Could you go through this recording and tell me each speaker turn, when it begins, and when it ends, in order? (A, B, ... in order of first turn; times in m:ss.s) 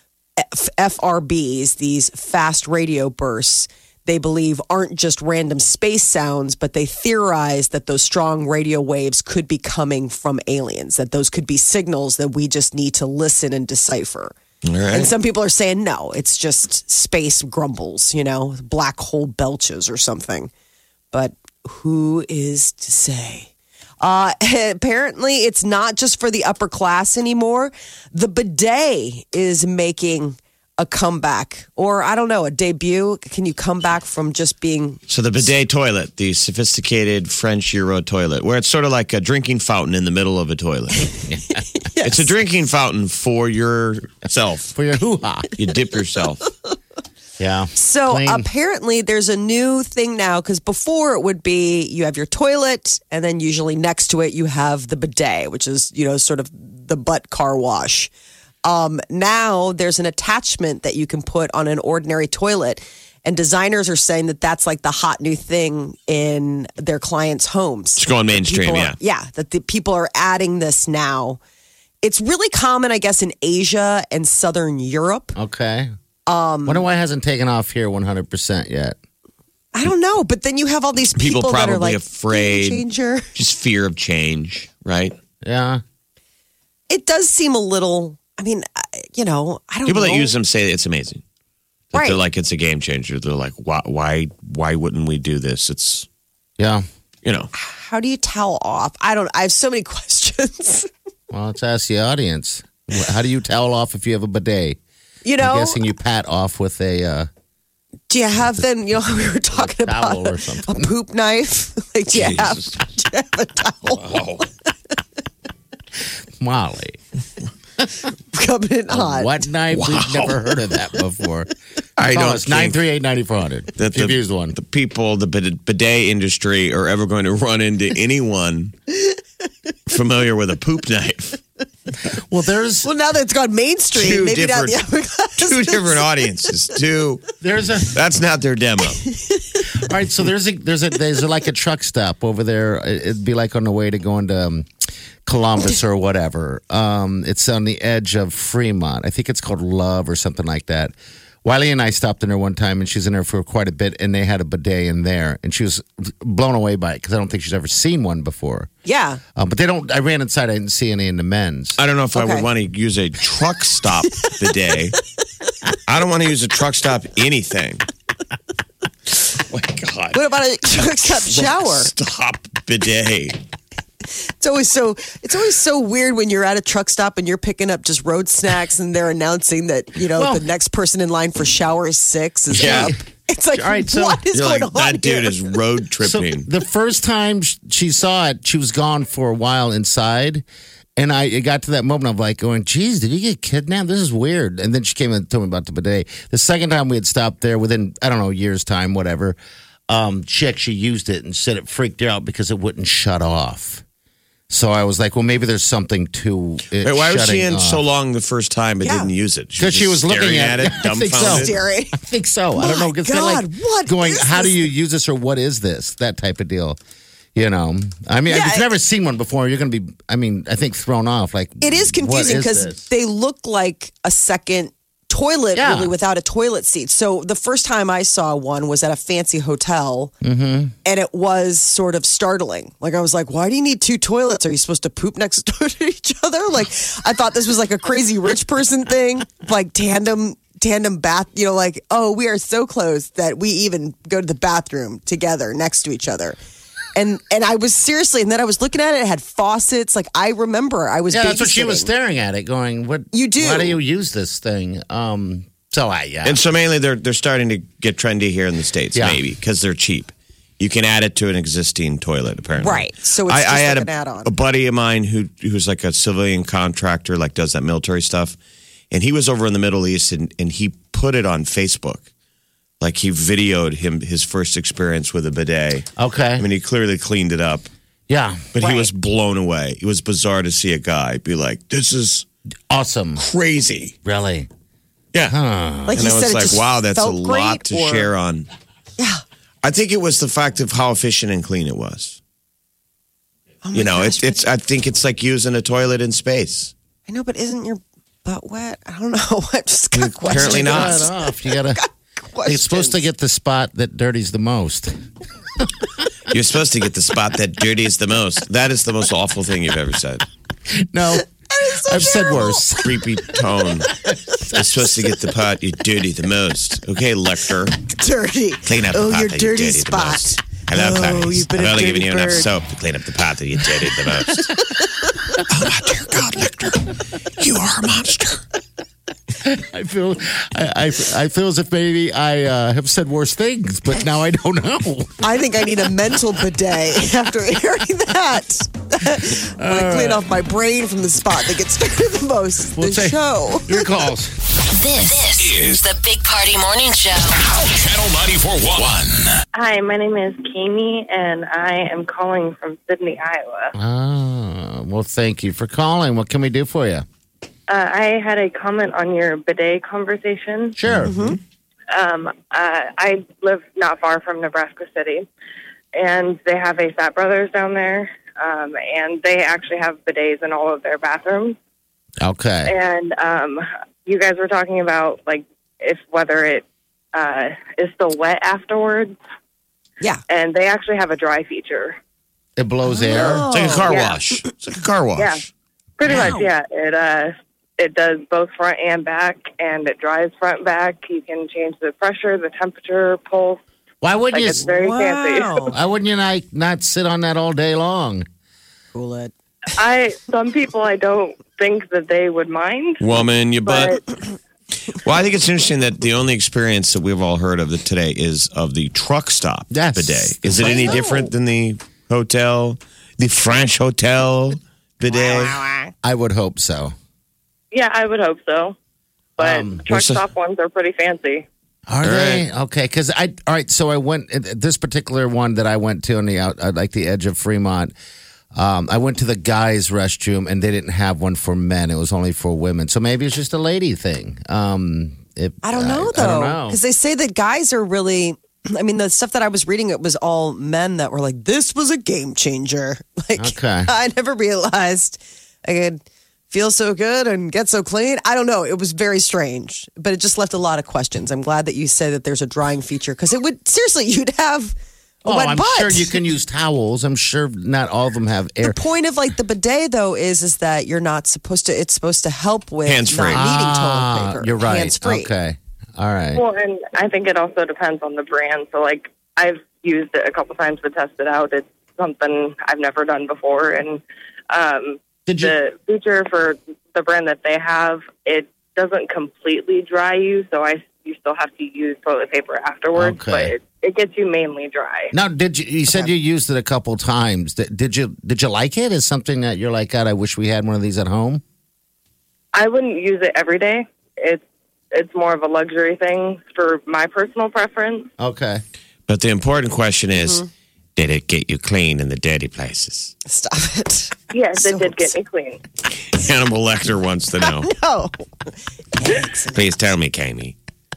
0:00.4-0:14.3 A
0:14.6-0:15.1 B
0:14.9-0:20.5 A
0:21.1-0:23.5 A
0:24.0-0:35.0 A
0:35.1-0:41.1 B
0:41.3-0:41.6 C
0:41.5-0:42.3 A
0:42.0-0:44.8 B
0:44.7-0:45.5 C
0:45.6-0:46.5 B
0:47.4-0:48.5 C
0:47.7-0:58.1 A
0:58.6-1:11.4 A
1:08.0-1:09.0 B
1:12.0-1:15.4 A
1:15.4-1:15.9 C
1:16.3-1:16.8 A
1:16.6-1:19.0 C
1:19.7-1:23.3 A
1:21.2-1:22.8 B
1:23.3-1:25.2 B
1:25.4-1:25.8 C
1:26.9-1:30.3 A
1:29.8-1:31.2 B
1:31.9-1:36.1 B
1:31.9-1:32.2 A
1:36.6-1:36.8 C
1:37.2-1:37.5 B
1:37.5-1:40.9 A
1:41.3-1:44.8 C
1:45.2-1:45.8 A
1:45.4-1:47.3 C
1:48.1-1:54.2 A
1:49.5-1:50.9 C
1:52.1-1:52.7 B
1:54.0-1:54.4 B
1:56.4-1:57.0 C
1:58.3-1:59.4 A
1:58.9-2:01.5 C
1:59.7-2:00.4 B
2:02.0-2:02.8 B
2:02.0-2:04.6 C
2:03.8-2:08.7 B
2:09.9-2:11.4 B
2:12.1-2:12.9 C
2:12.8-2:16.0 A
2:13.9-2:14.8 B
2:15.4-2:17.3 B
2:17.4-2:18.0 C
2:17.9-2:19.0 B
2:19.3-2:19.6 A
2:19.7-2:24.7 C
2:25.2-2:38.7 C
2:38.8-2:39.2 A
2:39.4-2:41.8 C
2:41.8-2:45.0 B
2:42.1-2:42.5 A
2:45.8-2:47.8 B
2:49.3-2:53.4 B
2:50.1-2:51.9 A
2:54.4-3:05.5 A
3:00.1-3:00.4 C
3:02.5-3:03.0 C
3:02.5-3:02.9 B
3:03.5-3:04.2 C
3:04.3-3:06.5 B
3:06.0-3:10.4 C
3:11.0-3:19.4 C
3:19.9-3:23.8 C
3:24.5-3:27.8 C
3:26.8-3:31.5 B
3:28.8-3:29.1 A
3:29.6-3:36.8 C
3:31.2-3:32.0 A
3:32.6-3:34.6 A
3:37.3-3:42.8 C
3:38.3-3:38.7 A
3:41.6-3:50.1 A
3:45.5-3:45.9 C
3:50.2-3:50.7 C
3:50.8-4:06.4 A
4:06.9-4:11.9 A
4:11.1-4:16.4 C
4:13.1-4:13.8 A
4:16.2-4:28.4 B
4:18.9-4:19.2 C
4:22.6-4:24.3 A
4:28.9-4:32.0 B
4:32.8-4:35.9 B
4:36.0-4:36.4 C
4:36.4-4:37.7 B
4:38.1-4:38.4 C
4:38.5-4:42.2 B
4:38.6-4:38.9 A
4:42.7-4:43.2 C
4:43.2-4:43.9 B
4:44.0-4:44.5 C
4:45.2-4:46.0 C
4:45.9-4:48.1 A
4:45.9-4:48.5 B
4:49.6-4:52.2 B
4:53.6-4:54.4 A
4:53.7-4:56.7 B
4:57.1-5:03.0 A
5:00.0-5:01.1 B
5:00.2-5:01.8 C
5:02.4-5:05.0 C
5:06.3-5:10.2 B
5:10.8-5:11.3 C
5:11.5-5:12.7 A
5:11.8-5:13.0 C
5:12.8-5:13.9 B
5:14.1-5:14.8 C
5:14.5-5:17.8 B
5:17.9-5:22.5 A
5:18.6-5:24.6 B
5:25.5-5:28.4 B
5:29.4-5:35.2 C
5:35.2-5:43.8 A
5:39.1-5:40.3 C
5:42.7-5:44.3 C
5:44.7-5:47.4 D
5:45.4-5:45.8 E
5:47.4-5:49.4 E
5:49.5-5:53.7 F
5:53.7-5:57.0 C
5:57.7-6:00.8 F
6:00.8-6:01.3 C
6:01.0-6:01.4 A
6:01.9-6:05.3 F
6:05.9-6:11.6 F
6:12.2-6:12.7 C
6:12.6-6:19.1 F
6:20.3-6:22.0 F
6:22.6-6:23.5 C
6:22.9-6:23.9 A
6:23.5-6:25.5 B
6:23.9-6:24.2 F
6:26.0-6:33.6 F
6:26.1-6:26.4 A
6:34.0-6:34.6 C
6:34.3-6:35.7 F
6:34.6-6:35.8 A
6:35.7-6:38.3 C
6:38.9-6:39.3 A
6:39.7-6:43.1 F
6:43.0-6:44.0 B
6:43.6-6:44.0 F
6:44.9-6:55.6 B
6:49.7-6:51.1 C
6:50.6-6:51.3 A
6:55.1-6:55.9 A
6:56.0-6:56.9 C
6:57.7-6:58.8 F
6:59.4-6:59.8 C
6:59.4-7:01.5 F
6:59.9-7:00.2 B
7:01.9-7:07.9 C
7:02.0-7:02.4 B
7:08.5-7:16.8 C
7:15.6-7:36.1 A
7:23.4-7:23.9 C
7:35.2-7:38.8 C
7:38.6-7:45.3 A
7:42.8-7:43.4 B
7:43.3-7:46.4 C
7:46.3-8:05.1 F
7:55.3-7:55.6 C
8:02.9-8:03.5 C
8:05.1-8:11.4 C
8:12.5-8:18.1 F
8:18.2-8:18.6 C
8:19.1-8:20.4 B
8:20.2-8:20.4 A
8:21.0-8:23.1 B
8:23.2-8:25.1 A
8:24.3-8:25.6 F
8:26.0-8:27.7 B
8:27.4-8:29.6 A
8:29.5-8:30.6 B